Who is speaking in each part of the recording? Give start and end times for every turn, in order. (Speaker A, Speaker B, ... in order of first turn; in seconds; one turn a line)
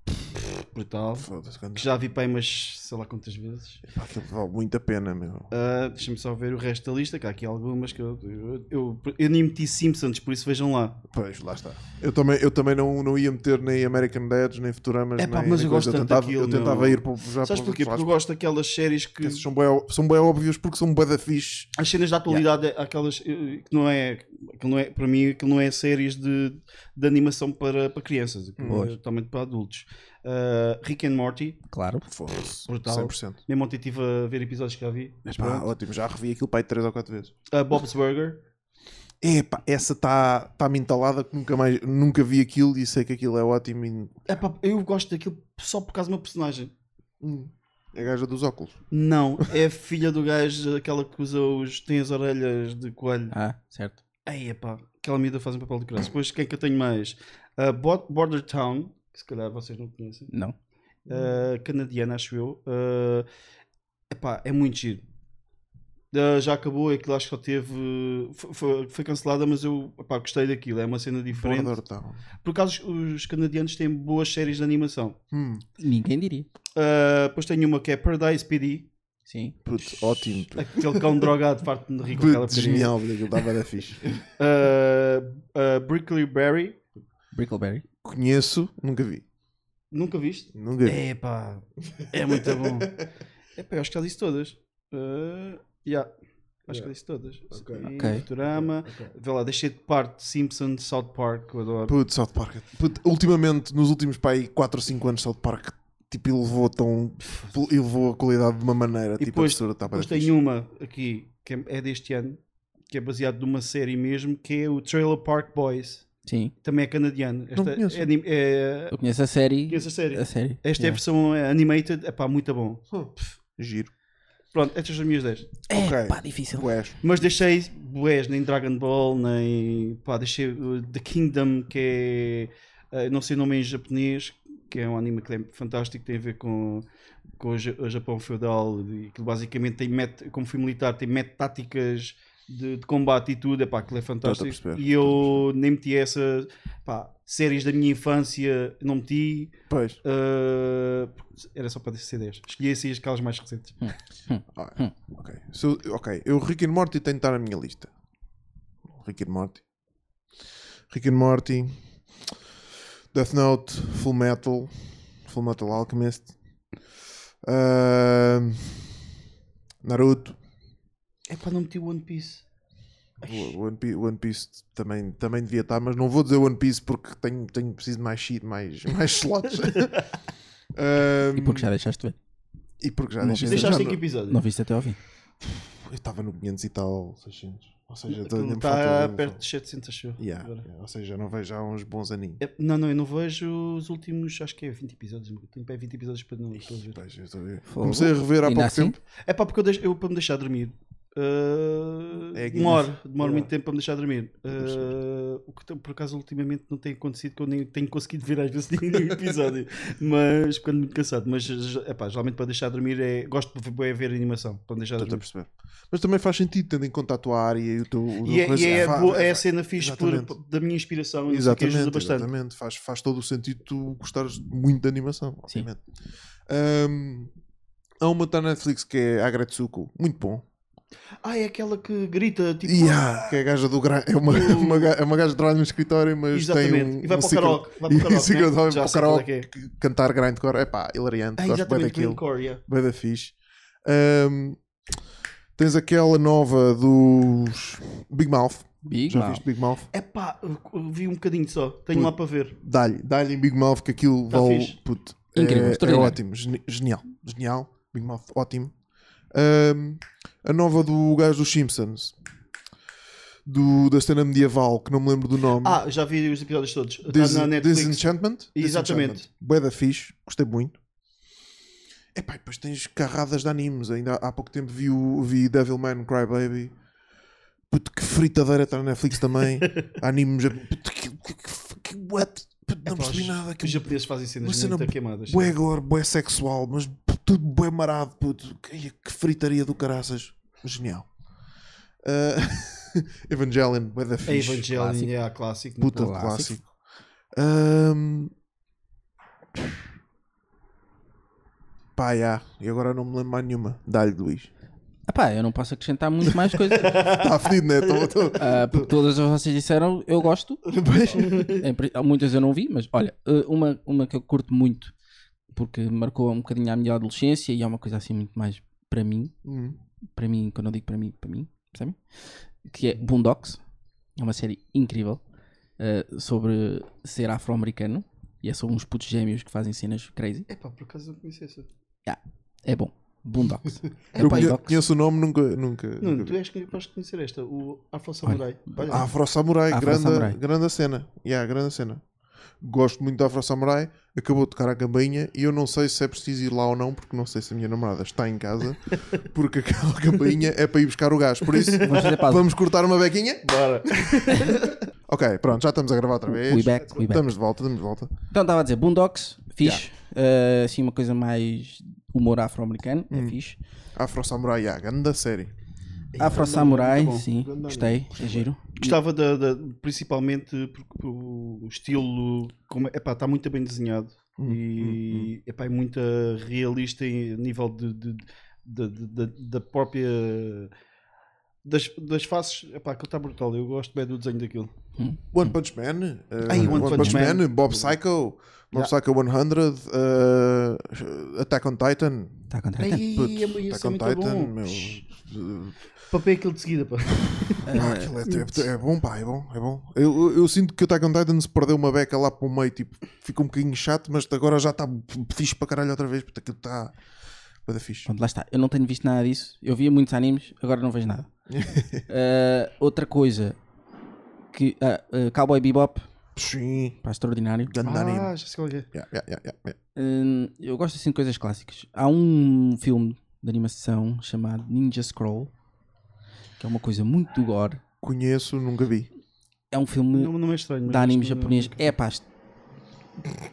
Speaker A: 0.3-3.8
Speaker B: 1.1-1.9
Speaker B: 3.9-5.5
Speaker A: 5.5-11.0
Speaker B: 11.1-18.1
Speaker A: 15.2-19.4
Speaker B: 19.2-21.7
Speaker A: 21.8-31.6
Speaker C: 28.6-28.9
Speaker C: 31.7-32.0
Speaker B: 32.0-33.4
Speaker A: 32.7-35.6
Speaker B: 35.2-37.3
Speaker A: 37.5-38.4
Speaker B: 39.2-44.2
Speaker A: 44.3-46.7
Speaker B: 47.2-48.8
Speaker A: 48.9-53.3
Speaker C: 53.3-54.0
Speaker A: 54.2-60.3
Speaker A: 61.1-63.3
Speaker A: 64.1-65.0
Speaker A: 66.1-71.8
Speaker B: 71.3-72.2
Speaker A: 72.4-75.2
Speaker B: 75.3-75.6
Speaker C: 75.8-76.5
Speaker A: 76.8-78.9
Speaker C: 79.3-79.5
Speaker B: 79.6-81.2
Speaker A: 80.6-83.0
Speaker B: 82.1-84.2
Speaker A: 84.4-86.8
Speaker C: 87.3-87.8
Speaker B: 88.0-89.2
Speaker A: 89.9-93.0
Speaker B: 90.5-91.0
Speaker B: 92.2-92.9
Speaker A: 93.5-96.1
Speaker A: 96.7-102.0
Speaker B: 97.5-99.1
Speaker C: 98.0-98.2
Speaker B: 101.9-110.3
Speaker A: 107.3-107.5
Speaker A: 109.2-116.0
Speaker C: 116.2-116.5
Speaker A: 116.6-119.0
Speaker B: 117.5-118.1
Speaker C: 118.9-121.0
Speaker A: 119.7-122.8
Speaker B: 122.9-123.9
Speaker A: 124.5-125.5
Speaker C: 125.7-126.7
Speaker B: 125.7-127.0
Speaker A: 127.0-136.8
Speaker A: 137.4-153.9
Speaker B: 144.2-145.4
Speaker B: 149.7-150.0
Speaker C: 153.8-154.9
Speaker B: 154.5-157.9
Speaker B: 158.9-159.6
Speaker B: 160.9-161.7
Speaker B: 163.1-164.7
Speaker B: 165.2-166.3
Speaker B: 167.4-168.9
Speaker B: 169.8-170.4
Speaker A: 171.3-172.4
Speaker A: 173.2-173.5
Speaker B: 173.2-180.0
Speaker A: 179.7-180.0
Speaker B: 180.7-181.7
Speaker C: 181.3-182.2
Speaker B: 182.8-184.0
Speaker C: 183.2-185.0
Speaker A: 183.4-184.4
Speaker B: 185.4-189.4
Speaker A: 188.1-190.7
Speaker B: 190.2-192.4
Speaker A: 192.4-197.0
Speaker B: 196.6-199.0
Speaker C: 197.7-199.0
Speaker A: 199.2-215.2
Speaker B: 202.3-203.5
Speaker B: 204.5-204.9
Speaker B: 215.0-220.3
Speaker A: 218.2-222.3
Speaker B: 221.3-225.8
Speaker B: 226.5-227.3
Speaker B: 228.0-230.4
Speaker A: 231.2-233.4
Speaker B: 232.6-243.3
Speaker A: 234.3-234.9
Speaker A: 236.3-239.5
Speaker A: 241.4-242.6
Speaker B: 243.8-244.6
Speaker B: 245.6-249.9
Speaker C: 248.8-249.4
Speaker A: 249.9-252.5
Speaker B: 251.9-258.7
Speaker A: 254.3-254.8
Speaker C: 255.3-256.2
Speaker B: 259.3-262.1
Speaker B: 263.4-265.8
Speaker A: 265.6-269.2
Speaker B: 267.1-270.8
Speaker B: 272.1-276.7
Speaker B: 277.7-291.1
Speaker A: 282.9-285.5
Speaker B: 292.0-294.8
Speaker A: 294.2-296.1
Speaker C: 294.8-295.1
Speaker B: 295.8-296.7
Speaker C: 295.9-296.5
Speaker B: 297.3-298.3
Speaker B: 301.9-304.5
Speaker C: 305.1-307.0
Speaker A: 306.8-308.2
Speaker B: 306.9-308.9
Speaker C: 308.4-310.6
Speaker B: 310.6-311.6
Speaker A: 311.2-311.6
Speaker C: 311.5-314.9
Speaker C: 315.5-319.3
Speaker B: 319.4-319.8
Speaker C: 320.1-322.0
Speaker C: 322.6-323.6
Speaker C: 324.2-325.2
Speaker C: 325.8-330.5
Speaker A: 330.5-331.7
Speaker C: 332.1-334.8
Speaker A: 334.1-334.6
Speaker B: 334.1-336.4
Speaker A: 336.0-339.1
Speaker C: 338.2-339.0
Speaker B: 338.9-342.0
Speaker C: 339.7-340.4
Speaker B: 342.6-354.5
Speaker A: 351.5-352.2
Speaker C: 351.8-352.4
Speaker A: 353.4-354.8
Speaker B: 355.1-358.1
Speaker C: 356.3-357.3
Speaker C: 358.3-363.6
Speaker B: 363.1-363.4
Speaker B: 363.9-365.5
Speaker A: 366.1-367.3
Speaker C: 366.2-368.9
Speaker B: 367.4-368.5
Speaker A: 368.8-380.7
Speaker B: 374.4-375.3
Speaker A: 381.6-384.7
Speaker C: 385.0-385.5
Speaker B: 385.3-392.4
Speaker A: 386.5-388.0
Speaker C: 386.5-387.3
Speaker C: 392.5-393.0
Speaker A: 392.8-395.0
Speaker B: 393.0-395.8
Speaker A: 396.1-397.7
Speaker C: 397.6-398.1
Speaker B: 397.7-406.9
Speaker B: 407.6-408.1
Speaker C: 408.1-411.3
Speaker B: 411.5-412.0
Speaker C: 412.1-413.6
Speaker C: 414.5-416.1
Speaker B: 416.3-417.0
Speaker C: 417.0-417.7
Speaker B: 417.6-418.3
Speaker A: 417.8-418.9
Speaker B: 418.9-419.8
Speaker C: 419.9-425.5
Speaker C: 426.6-427.8
Speaker B: 428.0-429.1
Speaker C: 429.7-430.3
Speaker A: 430.1-431.9
Speaker C: 430.9-432.2